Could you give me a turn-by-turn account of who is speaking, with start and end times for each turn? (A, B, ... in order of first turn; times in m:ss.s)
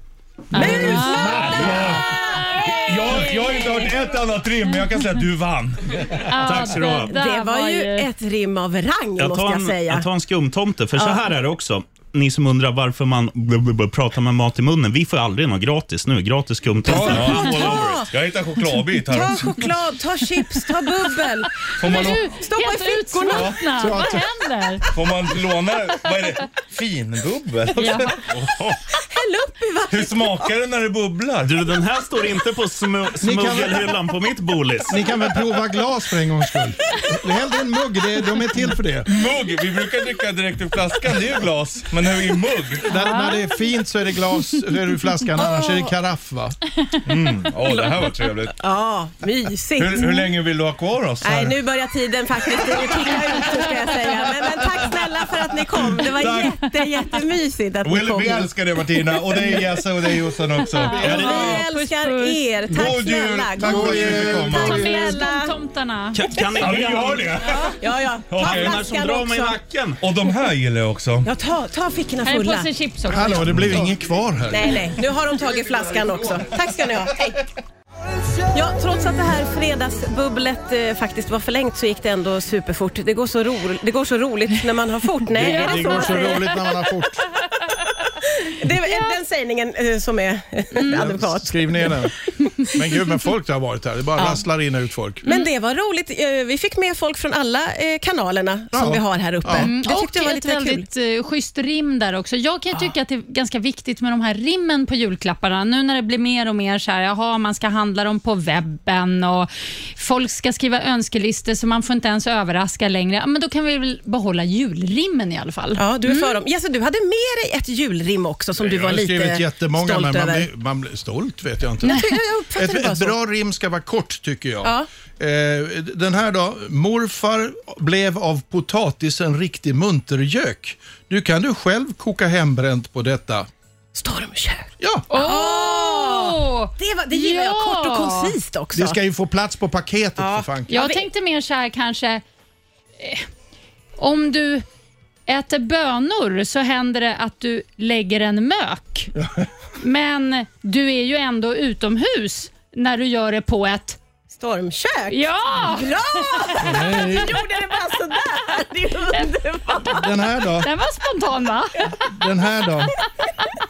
0:00.5-0:03.8 A
0:00.5-0:03.9 B
0:00.6-0:01.9 C
0:00.7-0:02.1 D
0:02.7-0:07.0 D
0:06.3-0:08.1 A
0:06.4-0:07.1 C
0:06.9-0:10.1 B
0:09.2-0:18.0 C
0:11.0-0:11.2 B
0:16.8-0:19.8 D
0:16.9-0:18.1 B
0:19.1-0:23.5 B
0:21.8-0:24.9 A
0:21.8-0:22.2 D
0:23.3-0:24.0 D
0:23.7-0:24.3 E
0:24.9-0:28.6 D
0:27.8-0:28.2 A
0:28.5-0:28.8 C
0:29.0-0:30.5 B
0:29.9-0:31.8 D
0:31.4-0:35.5 C
0:33.2-0:34.0 E
0:34.9-0:39.1 E
0:39.1-0:42.9 D
0:42.8-0:46.6 E
0:42.9-0:43.6 A
0:45.4-0:45.9 B
0:47.1-0:48.5 D
0:47.7-0:50.3 B
0:49.8-0:51.6 D
0:51.2-0:58.6 B
0:52.6-0:53.6 D
0:56.0-0:56.6 D
0:57.8-1:01.6 D
1:00.6-1:02.4 A
1:01.0-1:01.3 E
1:01.0-1:05.5 B
1:02.7-1:04.9 D
1:03.6-1:04.7 E
1:04.4-1:06.6 A
1:06.2-1:07.8 C
1:06.2-1:06.8 B
1:06.6-1:07.8 D
1:07.3-1:07.7 A
1:07.8-1:09.6 B
1:08.3-1:08.8 D
1:08.3-1:10.0 C
1:10.0-1:11.3 D
1:11.2-1:12.7 B
1:12.2-1:13.8 A
1:13.1-1:14.9 E
1:13.6-1:13.9 B
1:14.5-1:17.5 B
1:18.5-1:26.6 B
1:25.3-1:27.2 E
1:25.4-1:26.9 A
1:27.4-1:27.9 A
1:28.2-1:32.7 B
1:28.8-1:29.1 A
1:30.8-1:31.0 A
1:30.9-1:35.2 E
1:34.2-1:34.4 B
1:35.2-1:40.9 B
1:38.7-1:39.7 E
1:39.6-1:56.4 A
1:55.8-2:00.5 B
1:58.6-2:13.5 E
2:01.8-2:03.1 B
2:14.0-2:19.0 B
2:14.8-2:15.1 E
2:15.1-2:18.3 A
2:18.8-2:20.7 E
2:20.2-2:21.1 B
2:20.7-2:22.2 A
2:23.0-2:23.3 A
2:24.0-2:24.6 A
2:25.3-2:29.1 A
2:29.2-2:29.5 E
2:29.8-2:34.0 A
2:34.3-2:40.2 B
2:35.1-2:37.3 A
2:36.6-2:37.4 E
2:39.9-2:40.7 E
2:40.6-2:42.1 A
2:42.0-2:43.0 E